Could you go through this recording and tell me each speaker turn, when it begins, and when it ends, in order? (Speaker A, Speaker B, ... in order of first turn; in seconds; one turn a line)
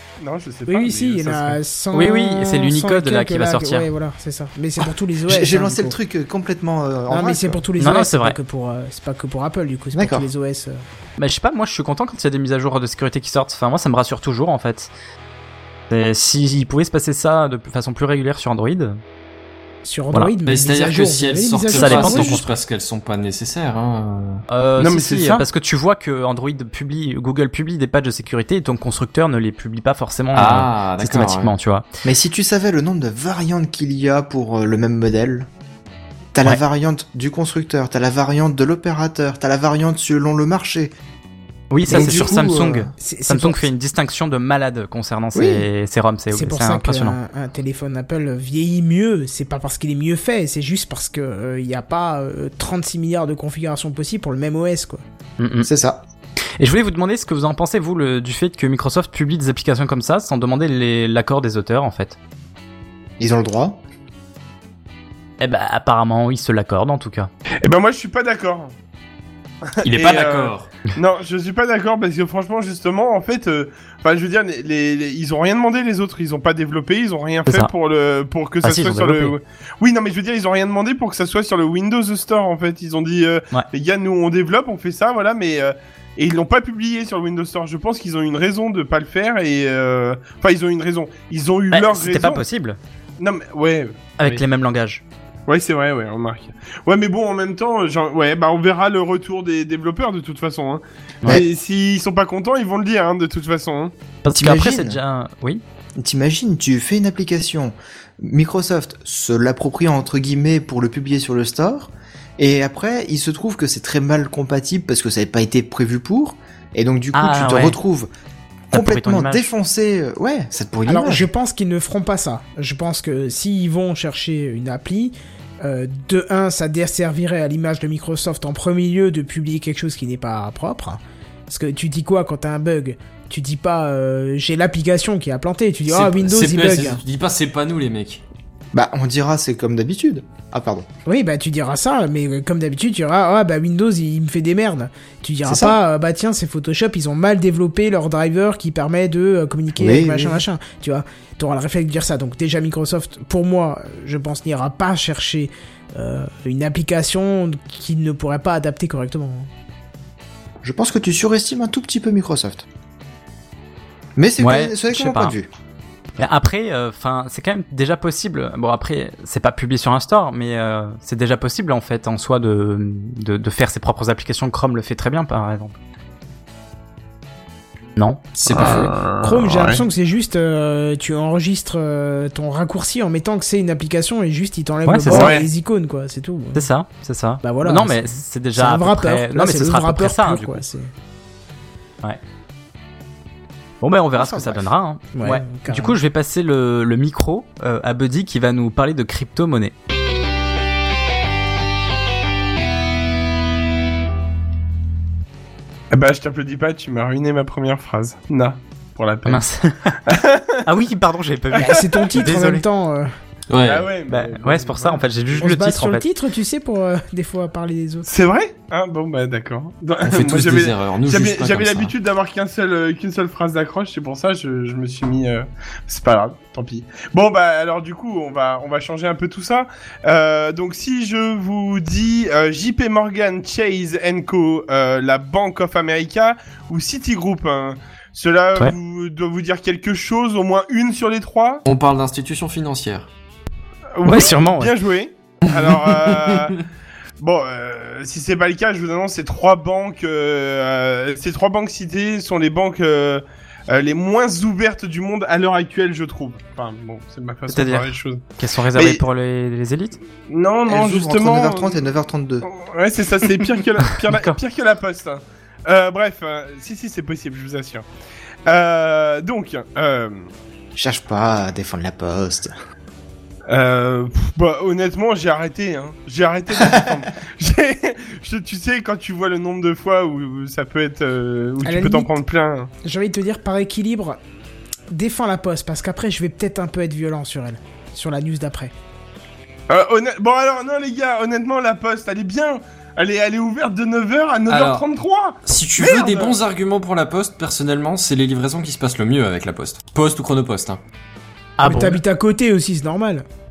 Speaker A: 0.2-1.6
Speaker B: 0.7-6.0
Speaker C: 1.9-3.9
Speaker D: 5.2-7.6
Speaker B: 7.1-10.8
Speaker C: 7.8-8.4
Speaker D: 9.9-10.3
Speaker C: 11.2-14.9
Speaker C: 15.9-19.0
Speaker B: 19.8-22.4
Speaker E: 20.4-24.4
Speaker C: 21.7-22.5
Speaker C: 24.5-31.8
Speaker A: 24.8-25.4
Speaker E: 30.3-31.5
Speaker D: 32.0-35.5
Speaker D: 36.3-40.9
Speaker C: 41.7-47.2
Speaker D: 41.9-42.9
Speaker B: 41.9-43.7
Speaker D: 45.3-45.7
Speaker B: 46.3-55.0
Speaker C: 55.4-55.7
Speaker D: 55.6-56.0
Speaker C: 56.6-62.1
Speaker D: 63.2-63.8
Speaker C: 65.4-67.3
Speaker A: 67.6-68.7
Speaker E: 69.8-70.7
Speaker A: 69.8-92.4
Speaker C: 77.5-77.7
Speaker C: 78.6-79.3
Speaker C: 91.7-92.8
Speaker A: 93.2-94.4
Speaker C: 94.2-95.0
Speaker A: 95.5-103.9
Speaker C: 104.2-105.6
Speaker D: 104.3-105.0
Speaker D: 106.0-118.1
Speaker C: 117.1-117.8
Speaker C: 118.7-119.5
Speaker D: 118.7-121.3
Speaker B: 120.9-137.0
Speaker E: 135.9-138.2
Speaker D: 138.7-140.9
Speaker B: 141.1-159.5
Speaker D: 145.4-145.8
Speaker D: 149.8-150.4
Speaker D: 160.6-162.6
Speaker D: 164.2-165.5
Speaker C: 164.4-165.3
Speaker C: 166.2-175.7
Speaker C: 177.9-178.3
Speaker E: 178.4-178.9
Speaker A: 178.5-179.8
Speaker B: 178.6-186.7
Speaker C: 184.8-185.3
Speaker A: 185.1-185.5
Speaker C: 186.5-190.6
Speaker B: 187.4-190.9
Speaker C: 193.8-199.7
Speaker D: 194.2-194.7
Speaker B: 195.1-196.0
Speaker A: 205.9-209.4
Speaker C: 209.2-210.0
Speaker A: 210.1-210.6
Speaker C: 210.7-212.6
Speaker B: 211.5-213.1
Speaker E: 213.5-213.9
Speaker A: 213.6-215.4
Speaker C: 214.1-216.0
Speaker B: 215.3-218.1
Speaker A: 218.1-241.6
Speaker E: 220.0-221.9
Speaker E: 241.7-243.1
Speaker A: 243.9-246.6
Speaker C: 244.0-244.7
Speaker E: 245.6-246.4
Speaker A: 247.2-259.0
Speaker C: 257.5-260.0
Speaker A: 260.3-261.8
Speaker D: 260.7-262.5
Speaker A: 262.4-267.8
Speaker C: 264.1-264.4
Speaker A: 268.5-270.3
Speaker D: 270.8-272.5
Speaker A: 273.5-282.7
Speaker B: 281.6-282.1
Speaker B: 282.8-284.2
Speaker B: 284.9-288.7
Speaker A: 289.7-296.3
Speaker E: 294.5-294.8
Speaker E: 295.4-300.8
Speaker C: 301.6-302.0
Speaker B: 301.6-303.2